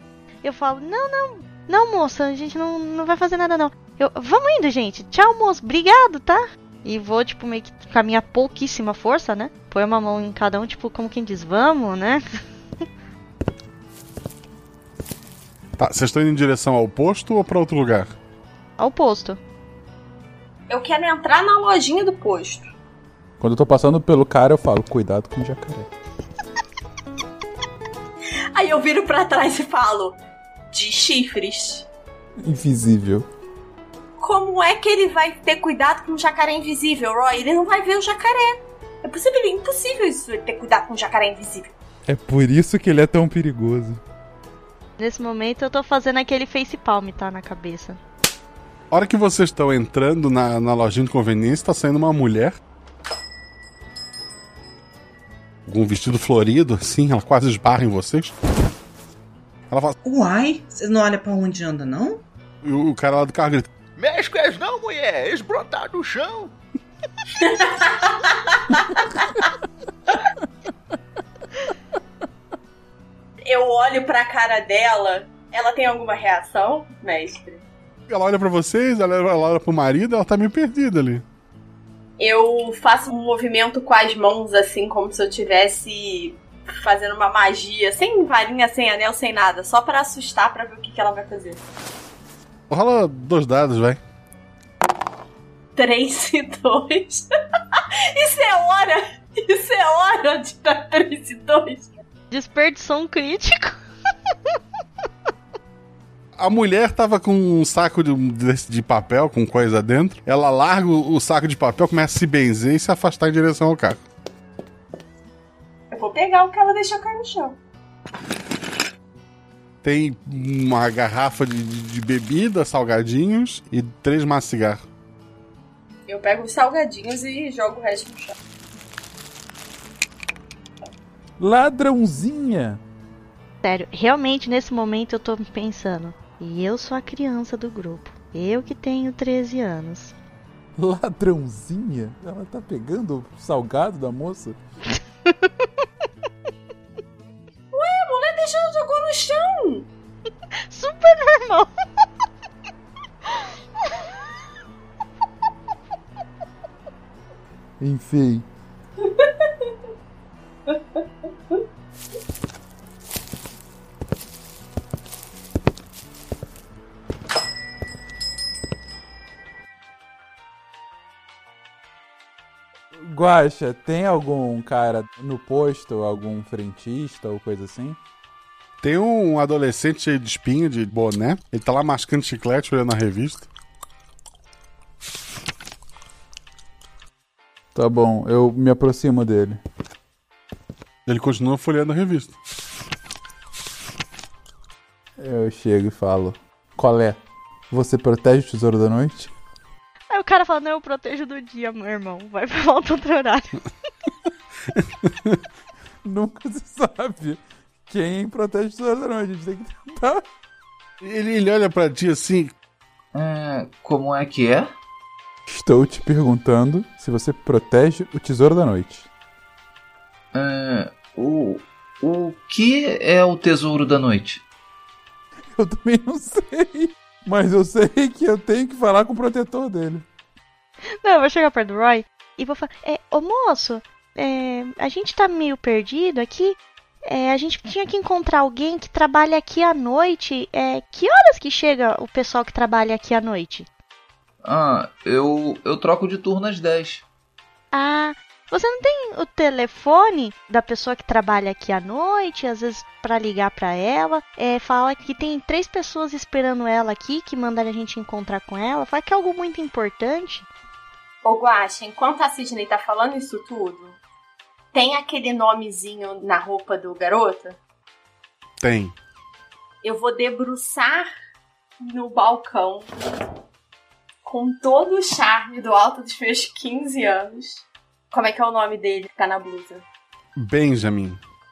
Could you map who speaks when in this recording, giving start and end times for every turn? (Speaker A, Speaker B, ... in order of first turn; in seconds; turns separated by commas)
Speaker A: 0.4-12.2, Speaker B: 15.8-18.1, Speaker A: 18.8-19.4, Speaker C: 20.7-22.7, Speaker D: 23.4-25.9, Speaker C: 28.5-30.2, Speaker C: 30.7-31.9, Speaker D: 32.4-33.3, Speaker C: 34.2-41.7, Speaker D: 42.1-44.0, Speaker A: 45.0-48.0, Speaker B: 48.9-52.6, Speaker B: 55.7-58.3, Speaker B: 59.7-60.0, Speaker E: 60.0-62.2, Speaker B: 62.6-63.7, Speaker F: 64.0-66.5, Speaker C: 67.4-69.3, Speaker C: 73.4-77.6, Speaker B: 78.1-81.2, Speaker C: 82.2-91.6, Speaker B: 92.7-94.0, Speaker C: 95.7-97.2, Speaker C: 97.8-102.0, Speaker A: 102.3-103.8, Speaker B: 106.4-114.0, Speaker C: 115.9-117.6, Speaker B: 119.8-124.8, Speaker C: 126.1-128.3, Speaker D: 131.4-132.8, Speaker A: 133.6-140.1, Speaker D: 140.8-144.6, Speaker C: 147.7-149.8, Speaker A: 150.7-151.7, Speaker D: 157.8-158.4, Speaker D: 173.0-178.0, Speaker B: 178.8-183.5, Speaker D: 187.7-189.6, Speaker B: 191.1-192.3, Speaker D: 195.2-197.2, Speaker D: 197.7-199.3, Speaker A: 200.1-203.5, Speaker B: 204.8-205.1, Speaker D: 206.0-210.2, Speaker B: 211.0-212.5, Speaker G: 213.1-214.7, Speaker D: 215.5-219.1, Speaker G: 220.3-224.4, Speaker D: 225.5-230.0, Speaker A: 231.0-243.7, Speaker G: 244.4-247.0, Speaker A: 247.7-260.5, Speaker C: 261.2-264.0, Speaker C: 264.7-267.6, Speaker B: 268.6-268.9, Speaker C: 269.8-271.1, Speaker C: 271.8-272.9, Speaker C: 274.2-279.8, Speaker B: 280.4-281.2